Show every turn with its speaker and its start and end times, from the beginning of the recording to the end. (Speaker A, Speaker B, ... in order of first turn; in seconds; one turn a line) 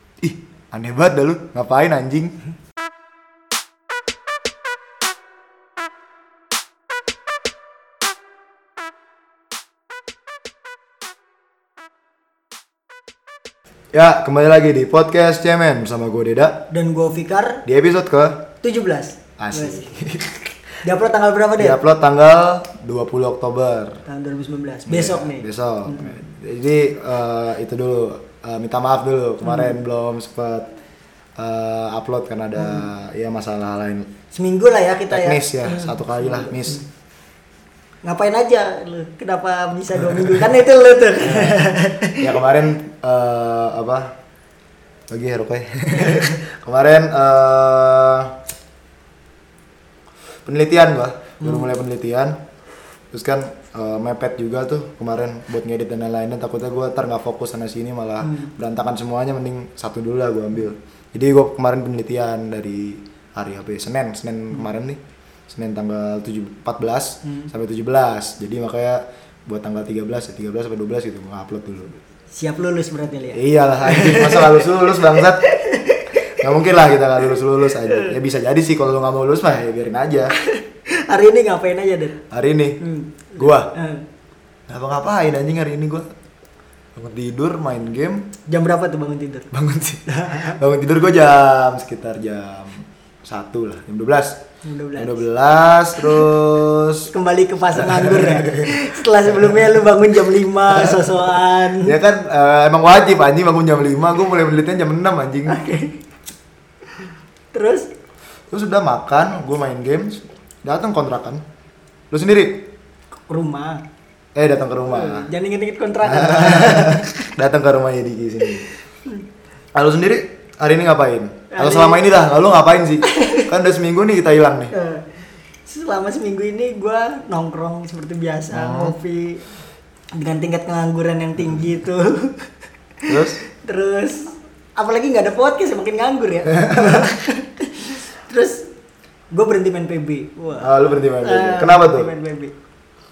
Speaker A: 0.2-2.3
Speaker A: 13.9-16.6
Speaker B: 16.7-17.6
Speaker A: 17.7-18.4
Speaker B: 18.6-19.9
Speaker A: 19.4-20.5
Speaker B: 20.8-21.8
Speaker A: 21.6-24.0
Speaker B: 24.1-26.1
Speaker A: 24.9-30.7
Speaker B: 29.4-29.8
Speaker A: 31.4-34.1
Speaker B: 34.3-36.8
Speaker A: 35.1-36.8
Speaker B: 38.0-42.4
Speaker A: 41.2-41.6
Speaker A: 42.2-44.1
Speaker A: 45.1-48.3
Speaker A: 50.5-52.4
Speaker B: 51.4-51.7
Speaker A: 53.1-71.9
Speaker B: 58.2-58.5
Speaker B: 72.3-76.4
Speaker A: 73.3-75.4
Speaker A: 76.4-80.3
Speaker B: 77.8-78.1
Speaker B: 80.4-82.2
Speaker A: 82.3-82.8
Speaker B: 82.8-84.0
Speaker A: 83.4-83.7
Speaker A: 84.7-86.1
Speaker A: 87.0-88.3
Speaker B: 88.5-89.5
Speaker A: 89.5-94.4
Speaker B: 90.1-90.6
Speaker B: 94.7-95.2
Speaker A: 95.0-97.1
Speaker B: 96.0-96.2
Speaker B: 97.1-102.0
Speaker A: 97.8-98.8
Speaker A: 100.7-101.0
Speaker A: 101.8-105.6
Speaker B: 105.5-106.0
Speaker B: 107.0-107.9
Speaker A: 108.5-111.4
Speaker A: 112.1-112.6
Speaker B: 113.3-113.8
Speaker A: 114.4-115.3
Speaker B: 114.9-117.3
Speaker A: 116.0-118.7
Speaker A: 119.7-124.7
Speaker B: 121.5-122.0
Speaker B: 123.0-123.5
Speaker B: 124.7-125.0
Speaker B: 125.7-129.4
Speaker A: 128.5-128.9
Speaker B: 130.2-132.5
Speaker B: 133.0-138.7
Speaker A: 133.1-133.4
Speaker B: 139.3-142.5
Speaker A: 140.6-142.1